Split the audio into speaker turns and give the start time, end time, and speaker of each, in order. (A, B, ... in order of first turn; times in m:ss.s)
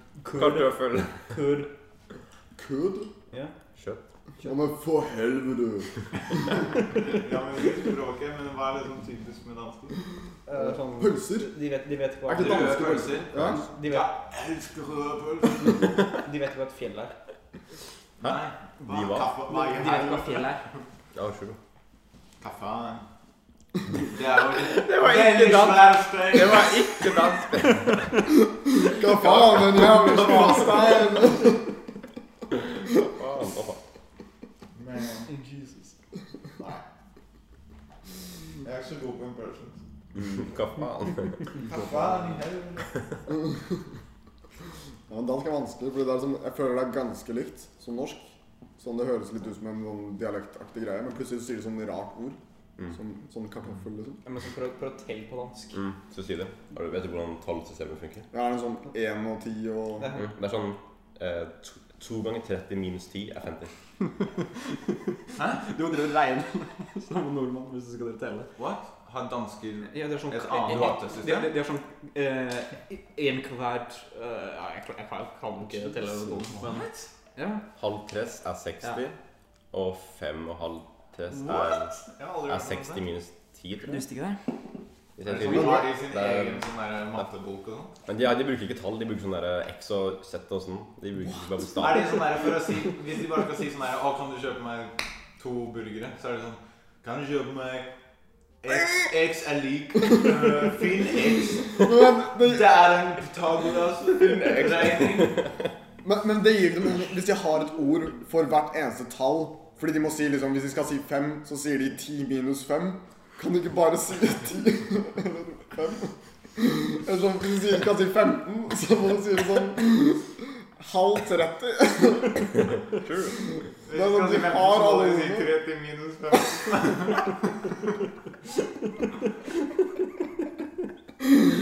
0:00.2-0:01.7 A
0:00.3-0:01.3 B
0:02.6-0:03.1 C
0:03.8-0:04.0 B
0:04.4-0:06.5 C
0:06.9-0:10.0 D
0:10.5-0:14.1 A
0:10.5-0:11.5 C
0:12.2-0:13.6 C
0:12.3-0:15.9 D
0:13.3-0:13.6 B
0:16.1-0:17.1 A
0:18.2-0:20.8 D
0:18.2-0:19.3 B
0:19.5-0:20.6 A
0:21.1-0:21.6 B
0:22.4-0:23.0 D
0:24.0-0:26.7 D
0:24.6-0:28.2 B
0:27.1-0:28.3 A
0:28.6-0:31.7 C
0:29.6-0:31.0 A
0:32.5-0:33.8 B
0:34.7-0:35.3 D
0:35.3-0:35.9 A
0:38.6-0:39.8 D
0:40.1-0:41.6 B
0:41.6-0:43.0 D
0:45.1-0:52.4 C
0:52.9-0:54.2 C
0:54.2-0:55.8 A
0:55.7-0:58.3 B
0:58.3-1:00.2 C
1:00.0-1:00.3 A
1:00.1-1:03.7 B
1:05.4-1:05.6 D
1:05.6-1:08.5 A
1:08.6-1:11.5 D
1:09.9-1:16.8 A
1:15.7-1:16.5 C
1:16.5-1:17.1 D
1:17.4-1:17.6 A
1:17.7-1:19.2 B
1:19.7-1:21.9 B
1:21.3-1:23.0 D
1:22.5-1:24.0 B
1:23.8-1:24.4 A
1:25.2-1:26.6 B
1:25.2-1:27.9 D
1:28.0-1:32.2 B
1:31.8-1:37.9 D
1:38.6-1:45.5 D
1:41.8-1:42.7 C
1:44.1-1:45.6 B
1:46.0-2:02.6 C
2:02.8-2:03.6 B
2:03.8-2:07.7 D
2:03.9-2:05.5 C